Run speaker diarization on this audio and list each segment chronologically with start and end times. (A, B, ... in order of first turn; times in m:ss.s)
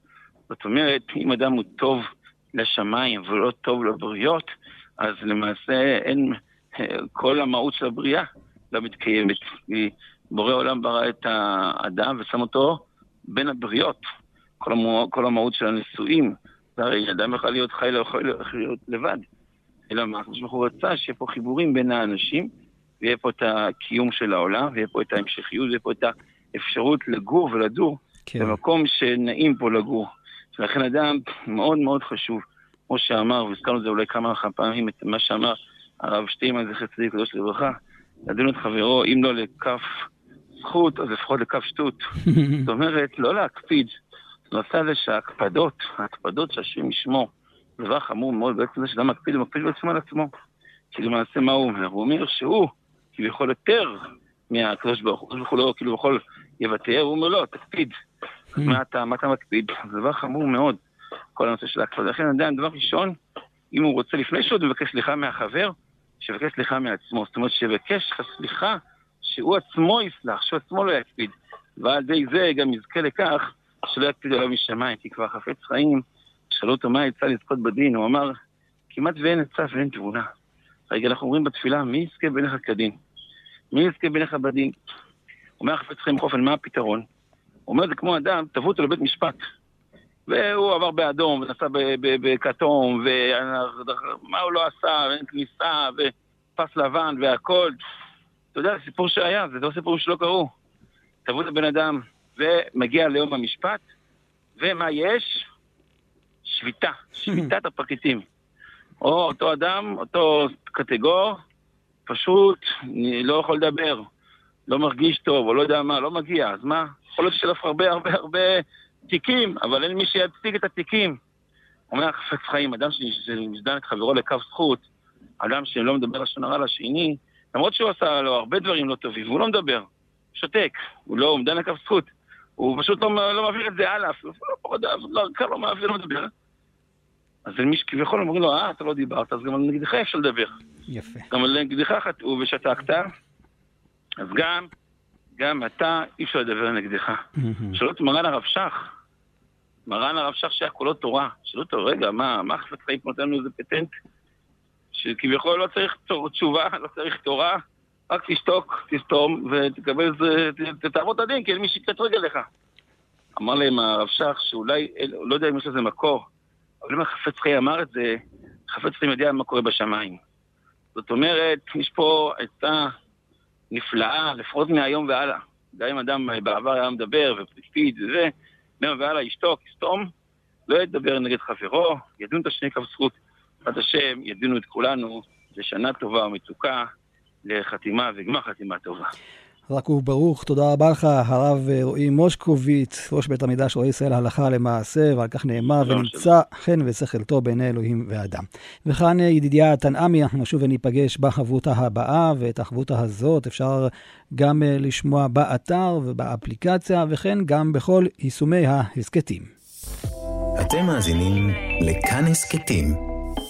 0:00.5-0:14.0 A
0:14.6-0:19.3 A
0:19.9-0:22.5 A
0:23.0-0:43.9 A
0:28.3-0:28.6 B
0:42.3-0:42.7 B
0:44.5-0:50.3 A
0:50.9-0:57.9 A
0:58.5-1:00.8 A
1:01.4-1:03.2 A
1:03.7-1:18.4 A
1:18.9-1:20.3 A
1:20.9-1:22.9 A
1:23.7-1:24.7 A
1:25.6-1:27.1 A
1:27.7-1:29.4 A
1:30.3-1:37.8 A
1:38.5-1:40.5 A
1:41.2-1:43.8 A
1:44.6-1:45.5 A
1:46.4-1:48.2 A
1:49.0-1:51.4 A
1:52.1-1:54.1 A
1:54.7-2:01.2 A
2:01.9-2:04.8 A
2:05.4-2:16.3 A
2:17.5-2:20.6 A
2:20.9-2:21.3 B
2:21.3-2:23.1 A
2:24.2-2:24.7 A
2:25.4-2:28.9 A
2:27.4-2:27.8 B
2:29.9-2:33.9 A
2:34.9-2:42.5 A
2:43.4-2:46.3 A
2:46.8-2:50.2 A
2:51.0-2:52.9 A
2:53.7-3:00.1 A
3:00.7-3:06.9 A
3:07.4-3:09.1 A
3:09.7-3:29.5 B
3:15.8-3:16.3 A
3:30.6-3:33.0 C